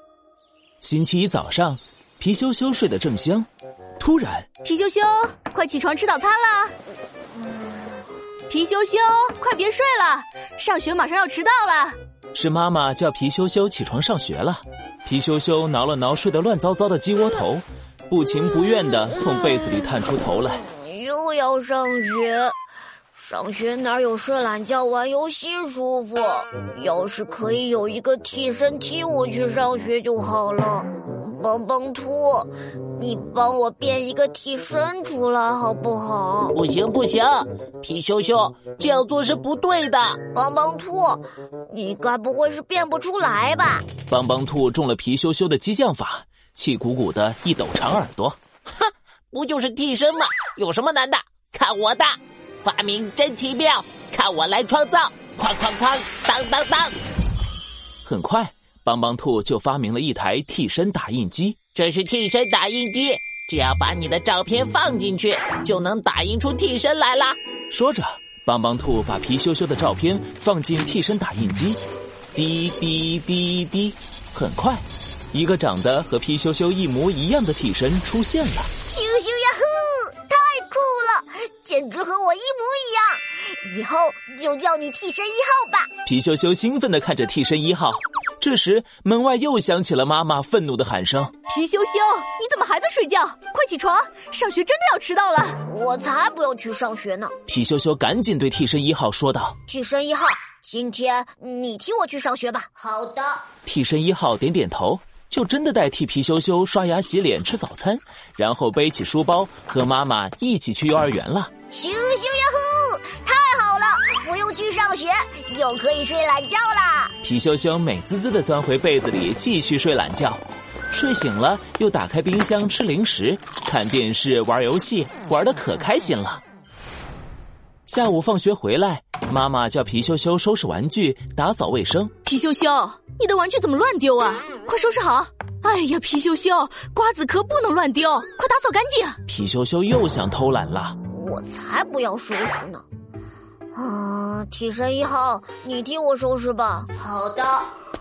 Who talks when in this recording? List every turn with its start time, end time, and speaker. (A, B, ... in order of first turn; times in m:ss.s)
0:00.8-0:03.5 A
0:04.0-0:04.5 A
0:04.6-0:06.7 B
0:07.4-0:07.9 C
0:08.5-0:12.0 B
0:12.3-0:20.6 A
0:20.6-0:22.5 C
0:23.1-0:36.6 C
0:36.5-0:40.2 D
0:40.3-0:43.8 C
0:44.1-0:48.4 A
0:48.8-0:56.9 D
0:58.0-1:01.6 A
1:01.7-1:07.4 D
1:07.7-1:11.8 A
1:12.3-1:18.7 A
1:18.9-1:25.9 C
1:26.0-1:31.3 A
1:31.5-1:35.6 B
1:35.7-1:37.3 C
1:37.5-1:39.6 A
1:39.7-1:43.4 C
1:43.7-1:51.5 A
1:51.7-1:57.1 C
1:57.2-2:06.4 A
2:07.9-2:12.1 A
2:12.3-2:19.2 B
2:19.3-2:21.0 A
2:21.1-2:22.8 C
2:23.8-2:27.7 C